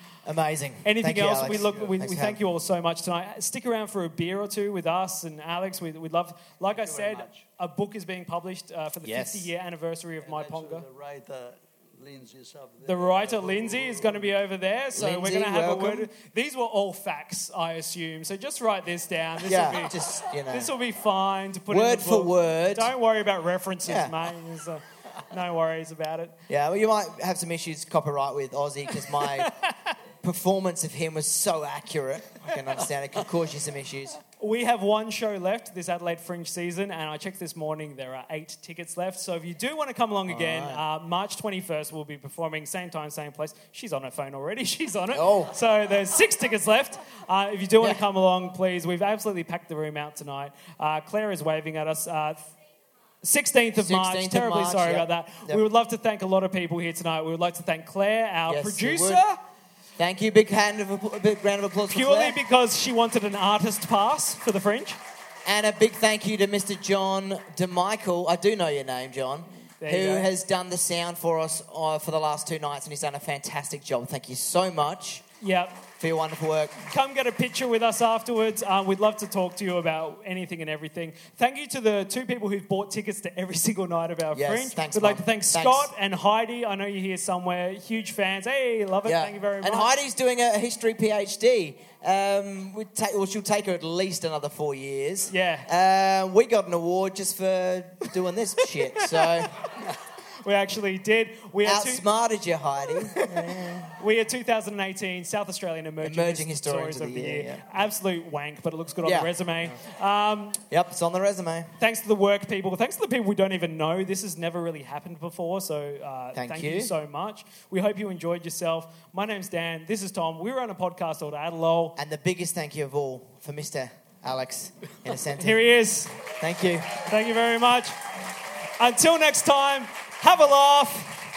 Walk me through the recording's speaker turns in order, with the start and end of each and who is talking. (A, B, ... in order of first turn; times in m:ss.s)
0:00.2-0:02.4 A
0:00.8-0:10.8 B
0:01.4-0:01.9 C
0:06.7-0:07.5 C
0:09.0-0:09.5 A
0:10.2-0:14.3 C
0:12.8-0:20.0 B
0:14.9-0:16.1 A
0:19.4-0:20.7 A
0:20.5-0:26.4 B
0:21.7-0:22.9 A
0:23.8-0:24.2 A
0:26.5-0:29.5 A
0:29.1-0:29.7 B
0:30.2-0:34.2 A
0:34.4-0:52.5 B
0:40.3-0:40.8 A
0:45.1-0:45.5 A
0:53.2-0:59.4 B
0:53.8-0:55.6 A
0:58.5-0:59.2 A
1:00.0-1:02.4 A
1:01.9-1:05.0 B
1:05.4-1:15.2 A
1:09.8-1:10.3 B
1:15.4-1:15.8 B
1:16.0-1:16.7 A
1:16.8-1:29.9 B
1:24.3-1:25.9 A
1:29.0-1:39.5 A
1:35.3-1:35.7 B
1:39.0-1:39.7 B
1:40.4-1:42.0 B
1:41.6-1:43.9 A
1:43.1-1:50.6 B
1:46.0-1:47.8 A
1:49.0-1:49.3 A
1:50.7-1:51.7 A
1:51.8-2:02.0 B
1:56.3-1:56.9 A
2:02.0-2:05.7 A
2:05.4-2:06.2 B
2:06.4-2:06.9 A
2:07.0-2:08.0 B
2:08.8-2:11.2 B